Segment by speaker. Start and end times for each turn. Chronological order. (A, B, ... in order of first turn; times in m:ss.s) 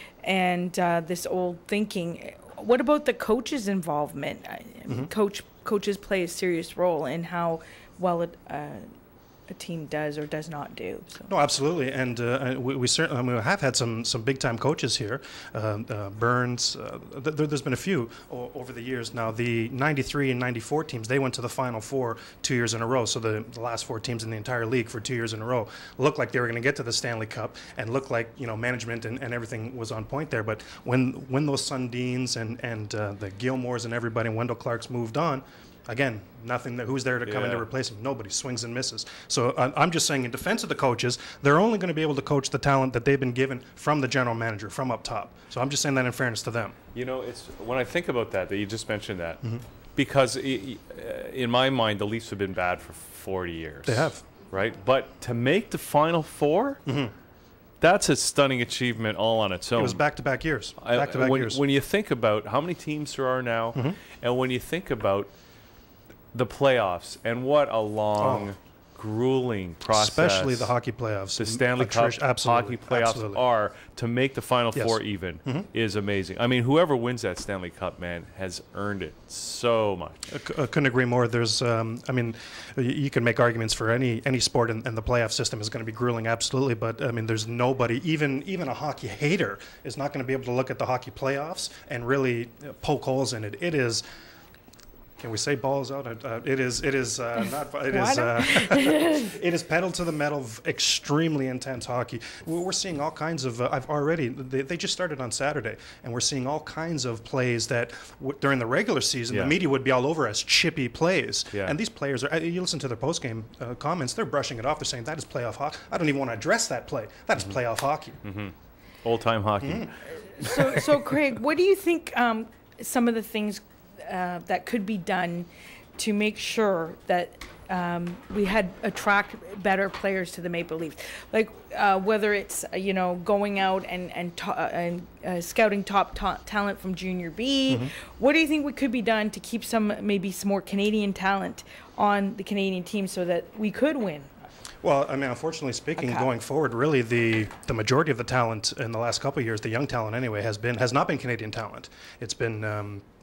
0:00.2-0:08.9 A
0:09.5-0:11.3 A
0:11.3-0:46.8 B
0:37.2-0:37.7 C
0:47.0-0:49.4 C
0:50.0-0:56.8 C
0:53.8-0:54.2 B
0:56.8-0:57.1 B
0:57.8-1:00.0 C
0:59.7-1:01.6 B
1:00.8-1:05.3 C
1:06.3-1:10.7 C
1:08.2-1:08.5 B
1:09.9-1:13.4 B
1:11.4-1:20.3 C
1:14.7-1:15.7 B
1:20.3-1:34.0 B
1:35.2-1:58.2 B
1:37.9-1:39.3 A
1:49.3-1:49.6 C
1:58.2-1:58.5 C
1:59.0-1:59.9 C
1:59.6-2:00.9 B
2:00.3-2:24.3 A
2:17.7-2:17.9 B
2:24.8-2:33.0 B
2:26.0-2:26.3 A